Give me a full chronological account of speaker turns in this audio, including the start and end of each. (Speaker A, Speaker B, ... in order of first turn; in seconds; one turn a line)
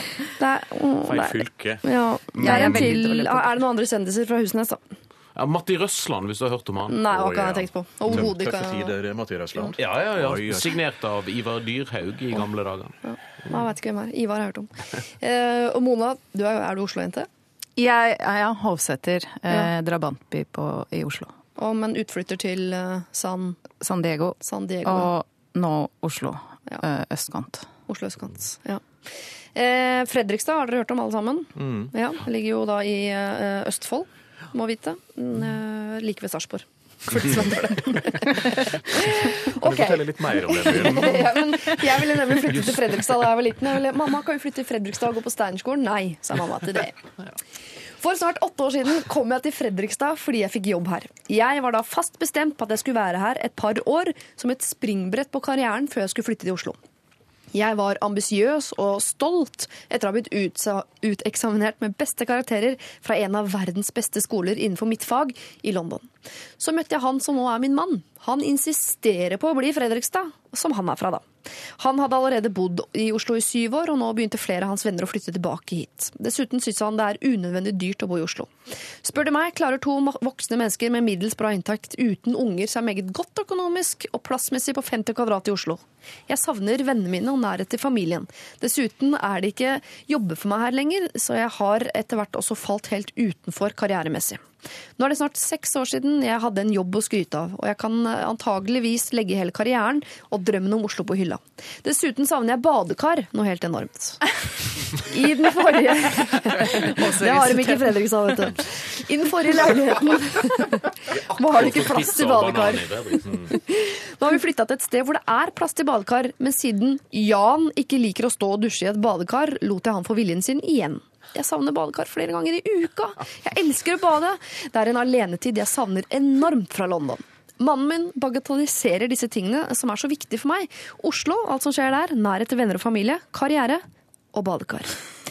Speaker A: 0.4-4.8
Speaker B: 1.0-1.9
Speaker C: 2.4-2.6
Speaker D: 2.4-3.6
Speaker C: 5.3-7.4
Speaker A: 6.9-8.9
Speaker B: 7.1-10.8
Speaker C: 9.8-13.0
Speaker A: 13.0-17.3
Speaker D: 17.8-21.3
Speaker A: 21.6-23.6
Speaker D: 23.8-27.7
Speaker A: 24.4-25.1
Speaker A: 27.9-28.9
Speaker A: 29.6-47.0
Speaker B: 31.6-31.9
Speaker B: 39.3-41.4
Speaker A: 48.0-56.8
Speaker A: 57.5-78.5
Speaker A: 79.0-94.4
Speaker A: 95.0-104.3
Speaker A: 104.9-135.0
Speaker D: 106.6-108.0
Speaker C: 111.1-113.4
Speaker B: 113.3-113.5